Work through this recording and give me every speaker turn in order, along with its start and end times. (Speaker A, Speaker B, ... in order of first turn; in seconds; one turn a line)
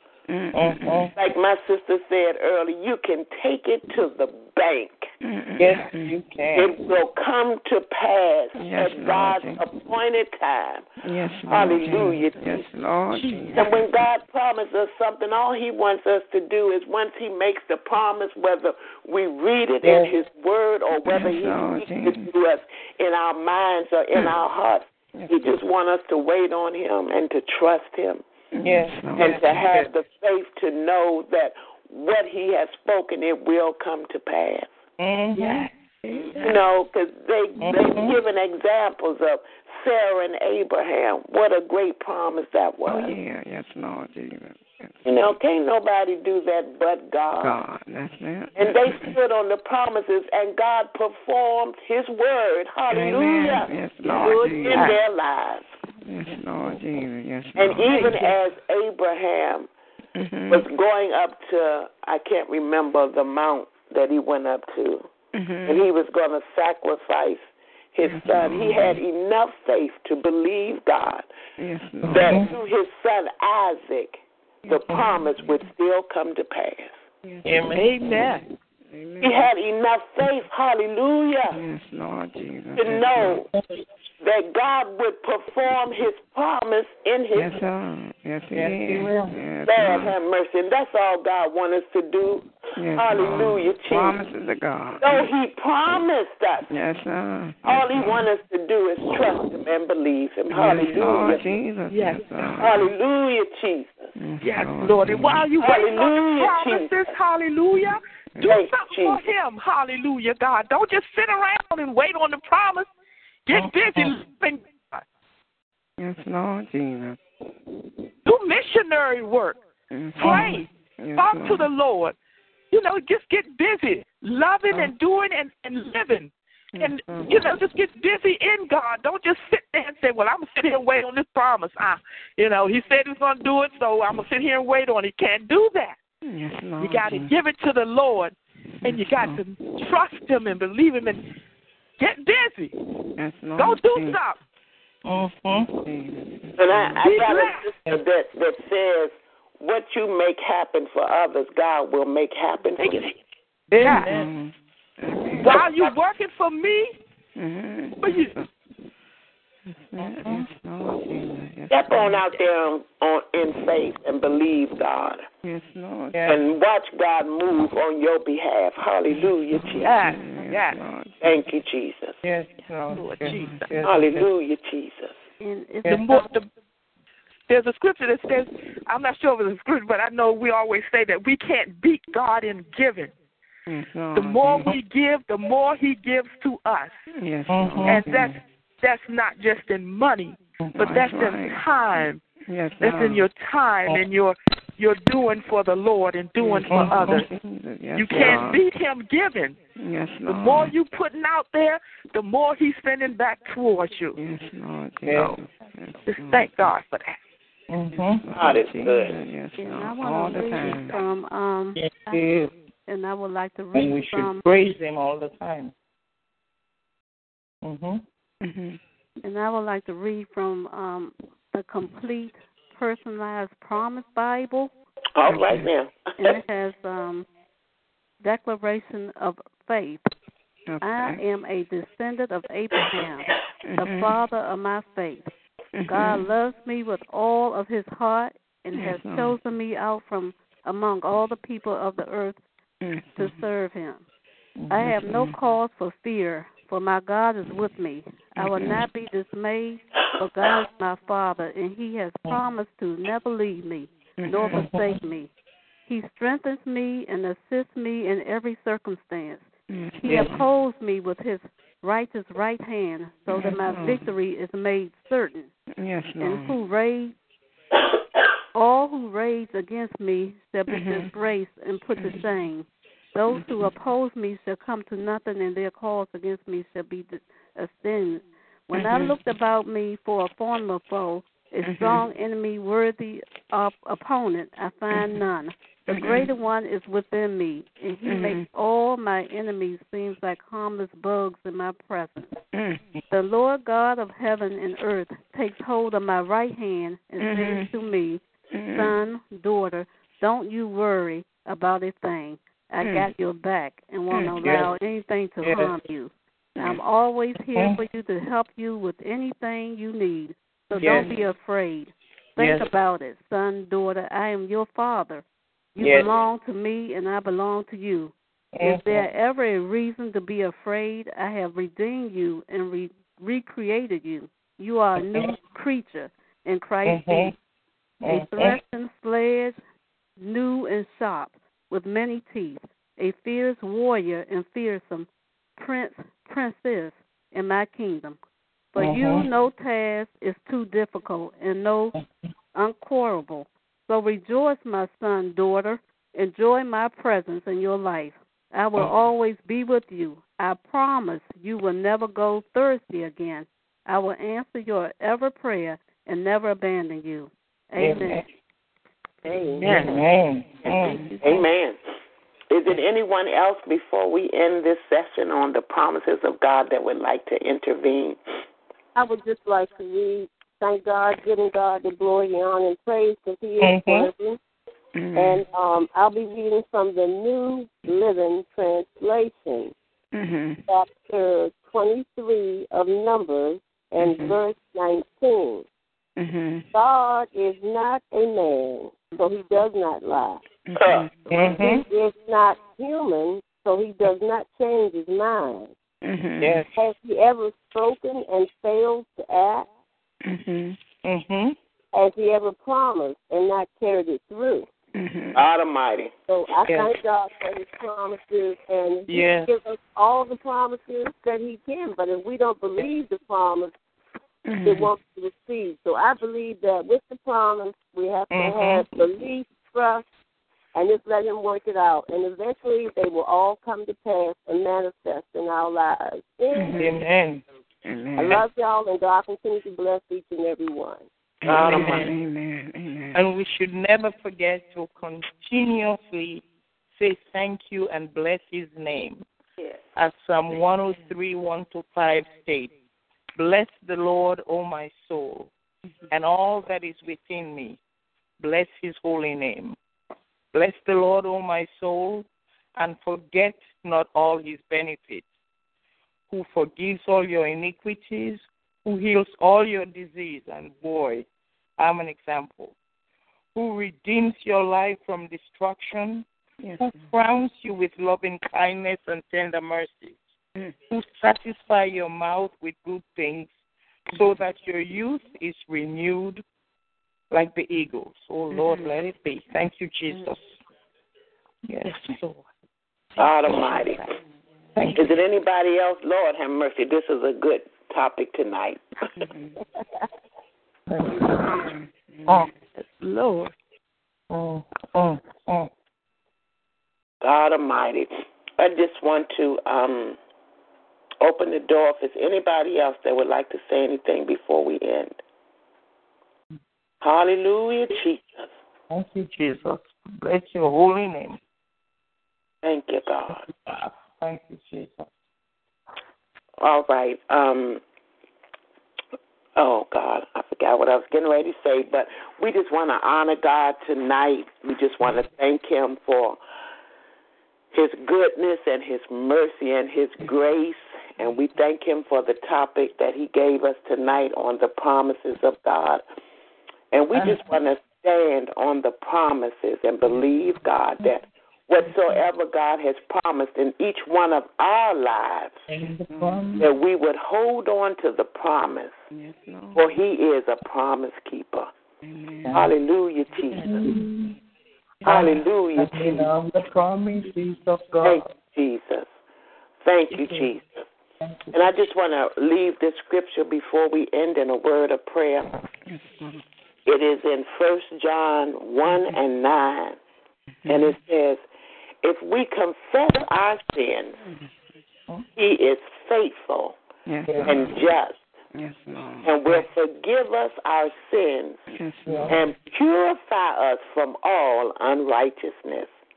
Speaker A: 0.3-1.1
Speaker B: 0.5-1.1
Speaker C: 1.1-5.1
Speaker A: 5.2-6.2
Speaker B: 5.6-6.8
Speaker C: 6.5-10.8
Speaker A: 8.6-9.7
Speaker A: 11.0-13.8
Speaker C: 11.5-12.6
Speaker D: 13.1-13.8
Speaker C: 13.6-28.2
Speaker B: 19.8-20.1
Speaker A: 21.0-22.3
Speaker A: 28.5-29.6
Speaker B: 28.6-29.9
Speaker C: 29.1-34.7
Speaker B: 35.0-35.7
Speaker D: 35.3-36.6
Speaker C: 36.3-43.2
Speaker B: 37.6-38.2
Speaker A: 42.9-45.3
Speaker C: 45.0-47.6
Speaker A: 47.4-49.1
Speaker C: 48.5-55.7
Speaker A: 52.9-54.9
Speaker D: 54.2-55.0
Speaker A: 56.0-58.1
Speaker C: 57.5-59.7
Speaker A: 60.1-60.6
Speaker C: 60.5-65.1
Speaker A: 65.3-65.8
Speaker C: 65.7-71.3
Speaker A: 68.0-69.0
Speaker A: 71.6-72.5
Speaker C: 72.1-76.9
Speaker B: 72.1-72.5
Speaker A: 74.6-75.7
Speaker B: 74.9-75.2
Speaker A: 77.2-78.2
Speaker B: 77.4-77.9
Speaker D: 77.7-78.4
Speaker A: 78.9-79.5
Speaker C: 79.2-81.6
Speaker A: 81.5-83.4
Speaker C: 82.8-83.5
Speaker B: 83.5-83.8
Speaker C: 84.2-87.6
Speaker A: 87.3-90.1
Speaker B: 88.5-89.4
Speaker C: 89.7-94.2
Speaker A: 92.8-95.3
Speaker C: 95.0-96.7
Speaker A: 96.7-98.3
Speaker C: 97.6-101.5
Speaker A: 100.5-102.9
Speaker D: 101.9-102.4
Speaker C: 102.6-104.0
Speaker A: 104.2-105.5
Speaker D: 104.4-112.9
Speaker C: 105.6-107.1
Speaker C: 108.4-109.2
Speaker D: 113.5-115.0
Speaker B: 113.5-114.1
Speaker A: 116.0-117.2
Speaker D: 118.2-119.6
Speaker A: 119.9-121.7
Speaker D: 120.2-122.2
Speaker B: 120.2-120.6
Speaker D: 122.7-136.0
Speaker A: 126.7-127.3
Speaker A: 136.2-137.3
Speaker D: 136.8-141.2
Speaker A: 138.8-139.4
Speaker D: 142.0-142.7
Speaker A: 143.2-144.2
Speaker D: 143.6-144.4
Speaker B: 145.0-145.7
Speaker A: 145.5-147.1
Speaker C: 146.6-153.1
Speaker D: 147.0-147.7
Speaker D: 152.8-153.2
Speaker B: 153.7-154.3
Speaker D: 153.8-154.1
Speaker A: 153.9-155.6
Speaker D: 155.4-156.9
Speaker A: 157.3-158.5
Speaker D: 158.0-158.3
Speaker A: 159.7-162.3
Speaker B: 160.0-160.5
Speaker C: 161.7-165.2
Speaker A: 165.4-166.2
Speaker B: 166.1-166.4
Speaker C: 166.3-169.9
Speaker A: 169.1-171.4
Speaker D: 169.8-170.8
Speaker C: 171.2-172.2
Speaker B: 172.2-174.3
Speaker D: 172.9-173.7
Speaker A: 173.1-173.6
Speaker C: 173.8-175.1
Speaker E: 175.4-176.3
Speaker B: 175.8-176.1
Speaker D: 175.9-176.5
Speaker D: 177.5-183.1
Speaker A: 183.7-184.8
Speaker D: 184.1-187.0
Speaker A: 187.1-188.3
Speaker B: 187.5-188.3
Speaker D: 187.8-192.2
Speaker A: 190.8-191.6
Speaker A: 192.5-193.2
Speaker D: 192.8-197.3
Speaker A: 196.4-198.6
Speaker B: 196.7-197.2
Speaker D: 197.9-199.6
Speaker B: 198.1-198.4
Speaker A: 199.8-200.7
Speaker D: 200.3-204.2
Speaker A: 204.1-206.7
Speaker B: 205.1-205.4
Speaker D: 206.1-207.2
Speaker B: 207.7-208.2
Speaker A: 207.9-211.0
Speaker C: 208.3-209.2
Speaker E: 209.6-212.2
Speaker B: 211.8-212.5
Speaker E: 212.8-214.4
Speaker B: 213.7-215.7
Speaker B: 217.6-218.0
Speaker A: 218.4-218.8
Speaker E: 219.2-224.7
Speaker C: 225.2-226.0
Speaker A: 225.2-225.7
Speaker E: 226.2-227.3
Speaker E: 228.2-230.1
Speaker A: 230.7-231.2
Speaker E: 230.8-235.3
Speaker A: 233.7-234.1
Speaker A: 235.7-236.3
Speaker E: 235.9-242.4
Speaker A: 238.7-239.3
Speaker A: 242.8-243.4
Speaker E: 243.2-244.0
Speaker B: 244.6-244.9
Speaker E: 244.7-255.3
Speaker A: 245.0-245.4
Speaker A: 248.4-248.8
Speaker A: 254.2-254.7
Speaker B: 254.5-255.0
Speaker E: 255.9-259.5
Speaker A: 259.7-260.4
Speaker E: 260.0-265.5
Speaker B: 260.0-260.3
Speaker A: 263.3-264.1
Speaker A: 265.8-266.6
Speaker E: 266.2-267.1
Speaker E: 268.5-292.3
Speaker A: 270.7-271.1
Speaker A: 272.0-272.2
Speaker A: 273.3-273.7
Speaker A: 278.7-279.1
Speaker A: 281.6-282.1
Speaker A: 284.9-285.2
Speaker A: 285.9-286.3
Speaker A: 288.0-288.4
Speaker A: 292.5-292.8
Speaker E: 293.1-298.2
Speaker A: 297.2-297.7
Speaker A: 298.5-298.9
Speaker E: 298.7-315.2
Speaker A: 302.8-303.1
Speaker B: 304.4-304.7
Speaker B: 305.4-305.7
Speaker B: 310.8-311.1
Speaker A: 310.8-311.1
Speaker B: 312.4-312.7
Speaker E: 315.7-327.3
Speaker B: 315.8-316.1
Speaker B: 318.5-319.1
Speaker B: 325.0-325.3
Speaker B: 326.8-327.3
Speaker B: 328.0-328.6
Speaker E: 328.1-329.6
Speaker E: 330.2-338.2
Speaker E: 338.7-341.9
Speaker B: 338.8-339.3
Speaker E: 342.5-358.2
Speaker B: 357.8-358.2
Speaker F: 359.2-359.9
Speaker B: 359.6-361.0
Speaker D: 359.6-360.0
Speaker D: 360.8-361.4
Speaker C: 361.2-361.8
Speaker C: 362.5-368.2
Speaker F: 368.9-374.4
Speaker B: 373.6-374.1
Speaker A: 374.9-375.4
Speaker F: 375.1-379.7
Speaker A: 380.1-380.6
Speaker F: 380.7-385.6
Speaker A: 384.0-384.4
Speaker A: 386.2-386.7
Speaker F: 386.7-390.4
Speaker A: 390.7-391.3
Speaker C: 390.8-391.2
Speaker B: 391.3-391.8
Speaker F: 391.4-395.7
Speaker A: 396.0-396.6
Speaker B: 396.4-396.7
Speaker F: 396.8-399.7
Speaker A: 400.2-400.8
Speaker B: 401.0-401.6
Speaker F: 401.9-404.7
Speaker A: 404.9-405.4
Speaker C: 405.3-406.1
Speaker F: 406.3-413.7
Speaker B: 406.6-406.9
Speaker B: 409.1-409.5
Speaker A: 414.5-414.9
Speaker F: 414.6-420.0
Speaker B: 418.3-419.0
Speaker F: 420.7-426.8
Speaker A: 426.5-427.0
Speaker B: 426.7-427.4
Speaker A: 427.8-428.4
Speaker F: 428.2-431.1
Speaker A: 431.4-433.2
Speaker C: 431.4-432.1
Speaker B: 431.5-432.1
Speaker B: 433.1-436.4
Speaker B: 436.9-439.2
Speaker B: 439.9-442.7
Speaker B: 443.4-445.5
Speaker B: 446.1-447.8
Speaker B: 448.4-449.8
Speaker B: 450.5-455.2
Speaker B: 456.3-461.2
Speaker B: 461.8-462.7
Speaker B: 463.5-466.2
Speaker A: 466.6-467.0
Speaker B: 466.8-470.2
Speaker B: 470.9-473.5
Speaker B: 474.1-476.4
Speaker B: 477.3-480.4
Speaker B: 481.7-482.1
Speaker D: 481.8-482.4
Speaker D: 483.1-484.0
Speaker C: 483.2-484.0
Speaker B: 484.8-485.1
Speaker C: 484.9-488.8
Speaker A: 489.1-489.6
Speaker B: 490.9-491.7
Speaker A: 491.4-492.5
Speaker D: 492.8-493.5
Speaker B: 494.3-495.7
Speaker C: 497.2-500.2
Speaker C: 501.2-505.2
Speaker C: 507.0-508.5
Speaker B: 508.9-511.4
Speaker C: 512.6-513.5
Speaker B: 513.5-515.1
Speaker C: 516.6-517.8
Speaker C: 519.5-526.4
Speaker C: 527.7-536.0
Speaker C: 536.9-545.6
Speaker B: 537.1-537.4
Speaker B: 545.7-546.7
Speaker A: 546.1-546.4
Speaker C: 546.6-548.9
Speaker A: 549.1-549.9
Speaker C: 549.7-551.7
Speaker A: 552.0-552.6
Speaker B: 552.4-552.7
Speaker C: 552.5-553.9
Speaker B: 553.5-554.4
Speaker B: 555.0-558.3
Speaker C: 555.0-556.3
Speaker C: 558.0-559.1
Speaker C: 559.8-560.8
Speaker B: 560.1-560.5
Speaker B: 561.2-561.7
Speaker C: 561.5-565.5
Speaker A: 565.9-566.4
Speaker C: 566.9-570.0
Speaker A: 570.6-570.9
Speaker C: 570.7-571.4
Speaker C: 572.0-574.2
Speaker A: 574.2-574.5
Speaker C: 575.4-576.7
Speaker A: 577.1-577.8
Speaker B: 577.2-577.8
Speaker C: 577.5-578.2
Speaker A: 578.5-579.4
Speaker C: 579.2-581.6
Speaker A: 581.7-582.4
Speaker B: 582.0-582.4
Speaker C: 582.3-585.9